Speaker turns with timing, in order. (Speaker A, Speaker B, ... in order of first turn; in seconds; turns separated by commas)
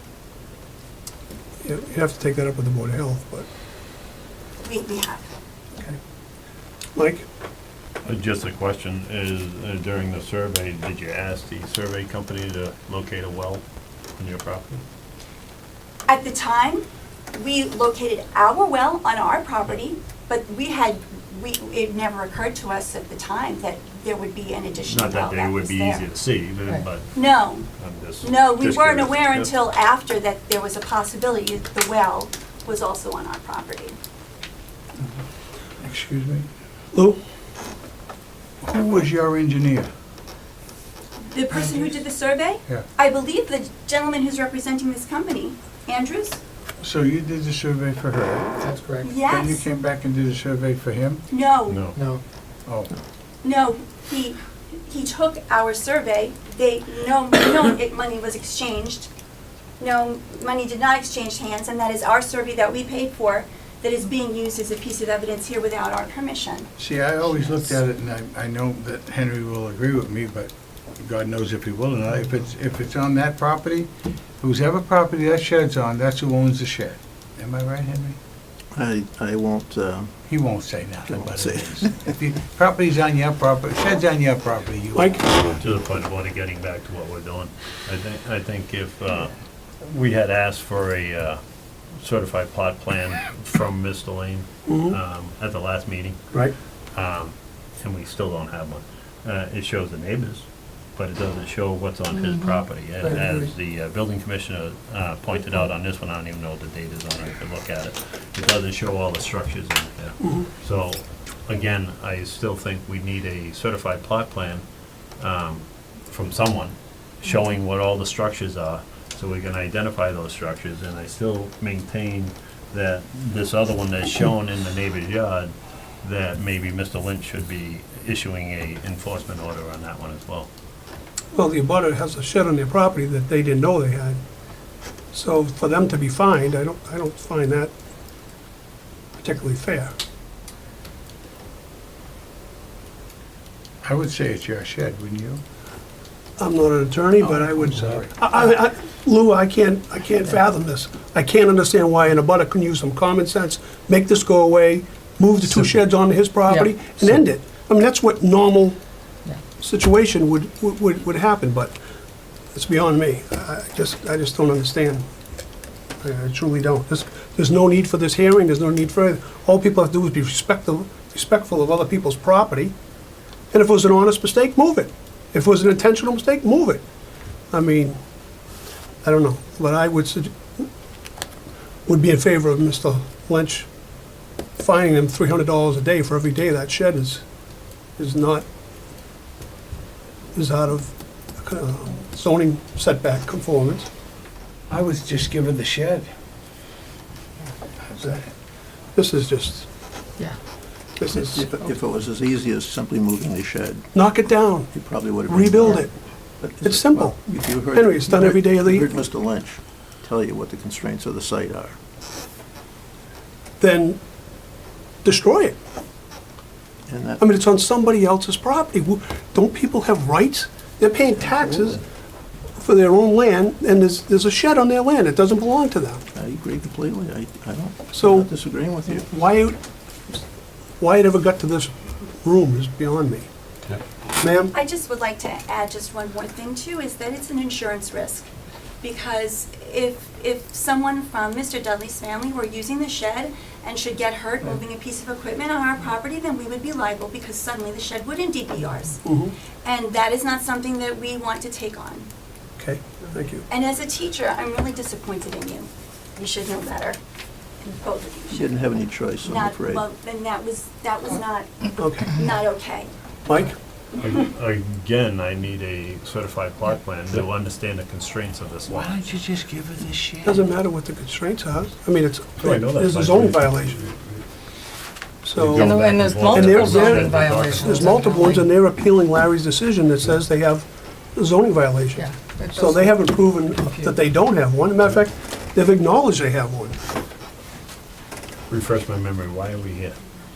Speaker A: 1.6-3.5, Speaker B: 4.6-5.3, Speaker A: 6.9-7.2, Speaker C: 8.0-13.6, Speaker C: 14.2-14.8, Speaker B: 16.1-26.0, Speaker C: 24.9-27.2, Speaker B: 27.1-27.7, Speaker C: 27.7-29.5, Speaker B: 28.2-34.0, Speaker D: 35.8-36.5, Speaker A: 36.9-37.2, Speaker D: 38.6-39.9, Speaker B: 41.3-46.4, Speaker D: 46.8-48.6, Speaker E: 48.6-49.1, Speaker B: 49.0-49.6, Speaker D: 49.2-51.2, Speaker B: 51.3-51.8, Speaker C: 51.7-52.0, Speaker B: 53.4-59.1, Speaker B: 59.8-66.7, Speaker D: 66.8-73.9, Speaker D: 74.4-78.2, Speaker F: 78.7-80.1, Speaker D: 80.3-85.2, Speaker F: 81.0-82.1, Speaker A: 84.9-85.2, Speaker C: 85.6-91.4, Speaker C: 92.0-96.2, Speaker A: 94.7-95.0, Speaker C: 96.9-100.4, Speaker C: 101.0-114.6, Speaker A: 110.2-110.5, Speaker C: 115.2-125.5, Speaker C: 126.0-130.5, Speaker A: 131.3-134.2, Speaker A: 135.1-137.7, Speaker A: 139.2-139.9, Speaker D: 143.8-145.4, Speaker A: 146.4-158.8, Speaker D: 147.4-148.0, Speaker A: 159.6-161.7, Speaker A: 162.5-165.1, Speaker A: 166.0-172.7, Speaker A: 173.5-176.8, Speaker A: 177.5-178.0, Speaker A: 179.0-180.7, Speaker A: 181.8-183.7, Speaker A: 184.6-187.2, Speaker A: 188.0-188.4, Speaker A: 190.3-193.9, Speaker D: 194.7-196.1, Speaker D: 197.9-198.2, Speaker A: 198.9-199.7, Speaker A: 201.0-201.5, Speaker F: 201.2-203.9, Speaker A: 203.9-204.7, Speaker F: 204.7-211.8, Speaker A: 205.2-205.9, Speaker A: 206.6-208.9, Speaker A: 213.6-214.0, Speaker A: 215.0-215.6, Speaker F: 216.9-217.2, Speaker A: 217.2-221.8, Speaker A: 222.6-226.0, Speaker F: 226.1-229.1, Speaker A: 227.9-229.6, Speaker A: 230.8-233.3, Speaker A: 234.2-234.5, Speaker B: 234.5-238.3, Speaker B: 238.8-249.0, Speaker A: 249.0-249.3, Speaker B: 249.6-252.1, Speaker A: 252.6-253.4, Speaker B: 253.5-257.0, Speaker B: 257.6-258.6, Speaker F: 258.3-259.8, Speaker B: 259.2-262.9, Speaker A: 261.8-262.1, Speaker A: 263.2-263.6, Speaker C: 264.0-269.0, Speaker D: 268.7-270.4, Speaker A: 270.2-273.8, Speaker C: 272.4-274.2, Speaker A: 275.2-286.8, Speaker C: 275.4-278.1, Speaker E: 275.5-278.4, Speaker E: 282.0-282.9, Speaker C: 288.5-290.0